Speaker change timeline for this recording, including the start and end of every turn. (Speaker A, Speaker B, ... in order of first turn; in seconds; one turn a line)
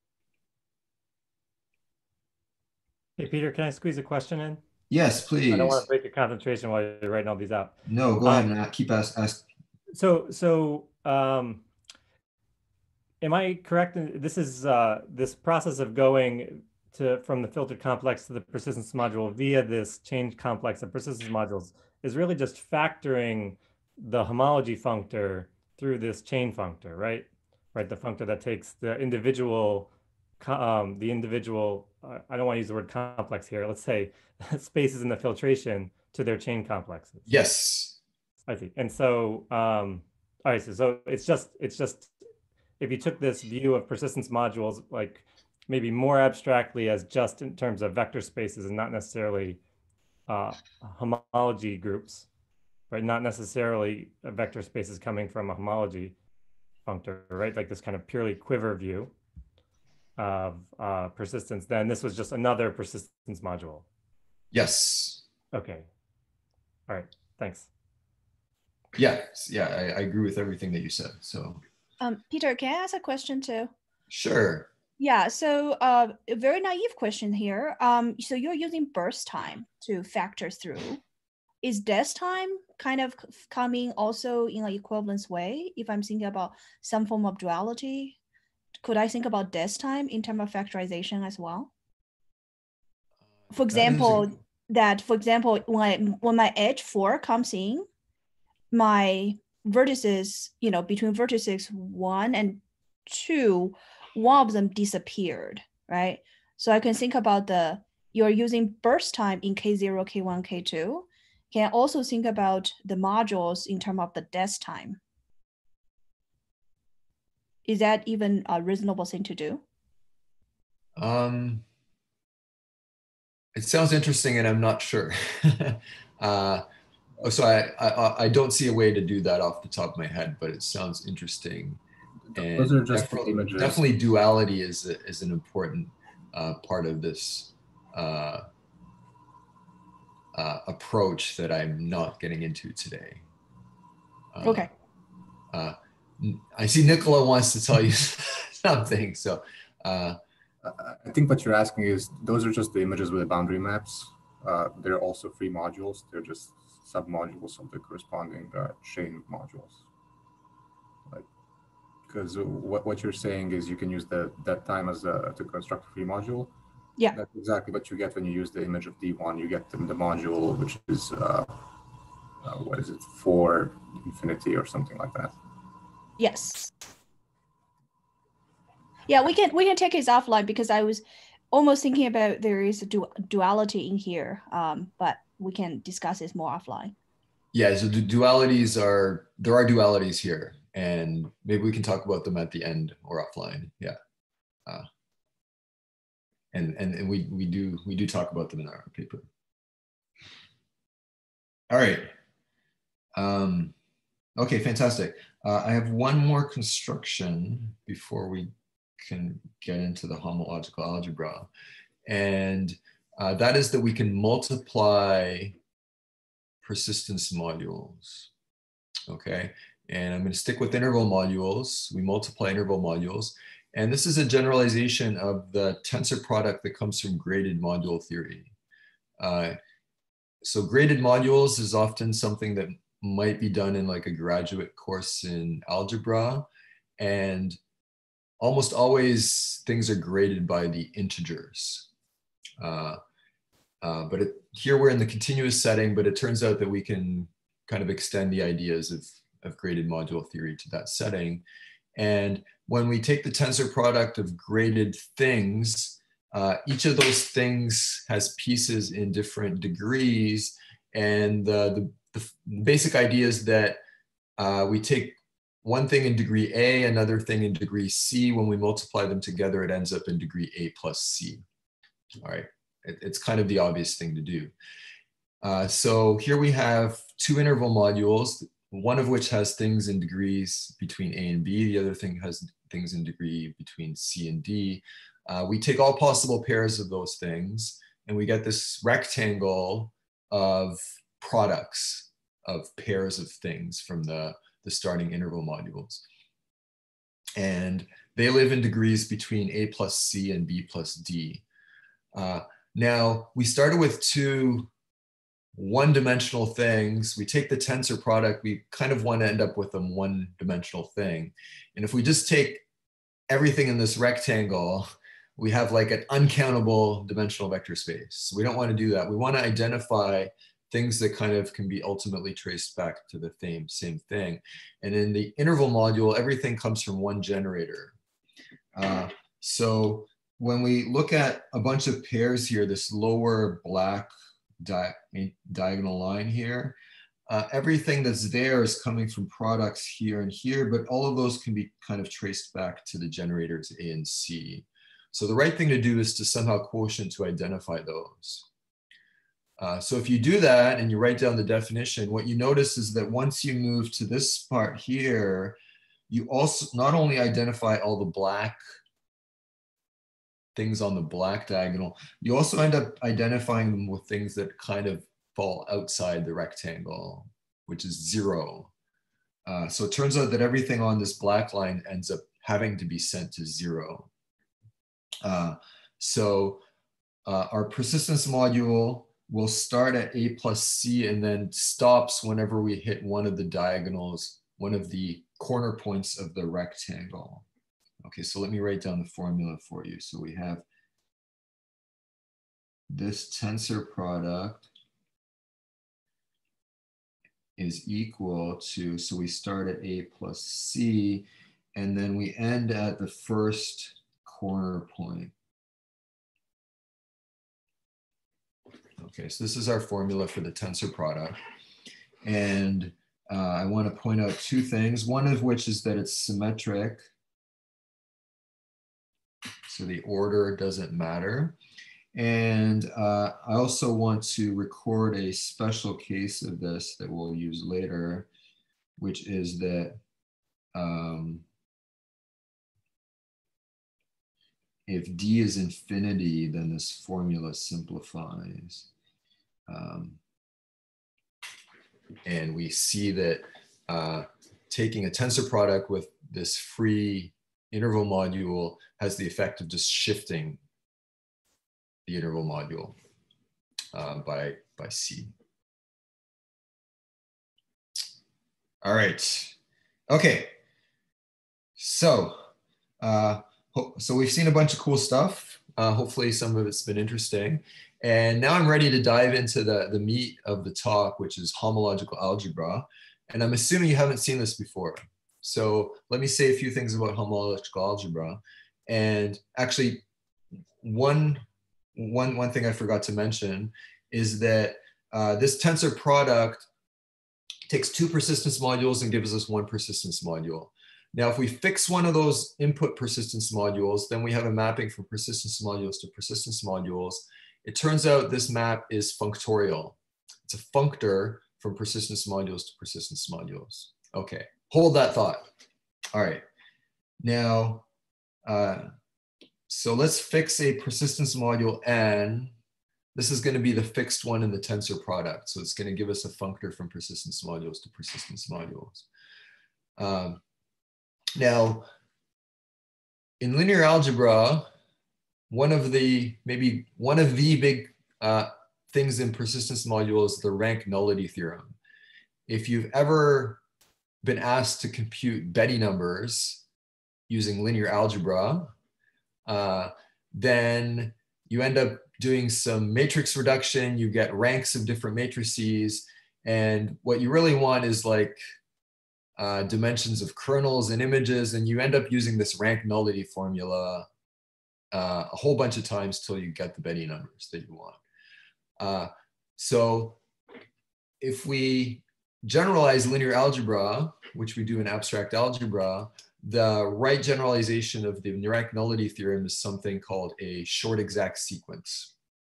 Speaker A: 3.2-4.6
Speaker B: 4.9-5.9
Speaker A: 5.5-8.5
Speaker B: 7.9-9.4
Speaker A: 9.9-11.6
Speaker A: 13.2-37.3
Speaker B: 37.3-38.0
Speaker A: 38.5-42.2
Speaker A: 42.8-49.6
Speaker A: 50.3-52.3
Speaker A: 52.9-56.1
Speaker A: 56.9-59.1
Speaker A: 60.2-63.9
Speaker B: 64.5-65.2
Speaker A: 65.5-65.9
Speaker A: 66.9-67.7
Speaker B: 68.9-71.6
Speaker C: 72.0-73.7
Speaker B: 74.1-74.7
Speaker C: 75.0-81.0
Speaker C: 81.6-88.2
Speaker C: 88.8-91.7
Speaker C: 93.5-97.9
Speaker B: 93.7-94.3
Speaker C: 98.7-115.0
Speaker C: 117.7-119.6
Speaker B: 121.0-121.7
Speaker B: 123.5-126.7
Speaker B: 127.2-131.8
Speaker D: 132.3-133.8
Speaker B: 132.4-138.4
Speaker B: 140.3-143.3
Speaker B: 144.3-144.7
Speaker C: 144.4-144.7
Speaker B: 145.5-150.2
Speaker D: 150.6-159.8
Speaker D: 162.1-166.5
Speaker D: 167.1-171.6
Speaker D: 172.4-175.3
Speaker C: 176.2-176.7
Speaker C: 179.1-186.9
Speaker B: 187.5-194.0
Speaker B: 196.5-199.3
Speaker B: 201.7-202.1
Speaker B: 203.2-203.7
Speaker B: 204.4-211.5
Speaker B: 212.1-215.6
Speaker B: 216.6-218.3
Speaker B: 219.1-228.5
Speaker B: 229.2-229.6
Speaker B: 230.4-236.5
Speaker B: 237.0-237.6
Speaker B: 238.4-241.9
Speaker B: 242.6-243.0
Speaker B: 243.8-251.4
Speaker B: 252.0-263.8
Speaker B: 264.4-271.4
Speaker B: 272.2-274.5
Speaker B: 275.4-296.1
Speaker B: 297.4-301.4
Speaker B: 302.1-304.7
Speaker B: 305.6-312.6
Speaker B: 313.3-327.9
Speaker B: 328.8-348.5
Speaker B: 349.6-355.6
Speaker B: 356.1-358.6
Speaker B: 360.6-368.7
Speaker B: 369.5-374.1
Speaker B: 375.2-376.6
Speaker B: 377.3-387.5
Speaker B: 388.0-390.6
Speaker B: 392.9-394.7
Speaker B: 397.6-405.3
Speaker B: 409.0-411.4
Speaker B: 412.2-417.1
Speaker B: 419.7-421.6
Speaker B: 422.1-428.3
Speaker B: 429.0-430.0
Speaker B: 430.7-431.4
Speaker B: 434.9-438.9
Speaker B: 439.7-440.2
Speaker B: 442.2-450.6
Speaker B: 452.1-453.0
Speaker B: 453.9-455.3
Speaker B: 458.8-459.6
Speaker B: 460.1-460.5
Speaker B: 461.8-462.4
Speaker B: 463.0-480.0
Speaker B: 480.8-481.4
Speaker B: 481.9-486.7
Speaker B: 487.7-505.5
Speaker B: 506.1-506.4
Speaker B: 507.2-507.9
Speaker B: 508.4-508.9
Speaker B: 509.7-512.5
Speaker B: 513.1-519.1
Speaker B: 520.0-520.4
Speaker B: 521.4-521.9
Speaker B: 523.4-524.7
Speaker B: 525.5-531.8
Speaker B: 532.5-533.6
Speaker B: 534.2-536.6
Speaker B: 537.3-538.7
Speaker B: 539.5-548.4
Speaker B: 549.4-554.1
Speaker B: 554.9-558.0
Speaker B: 558.8-560.2
Speaker B: 561.2-572.1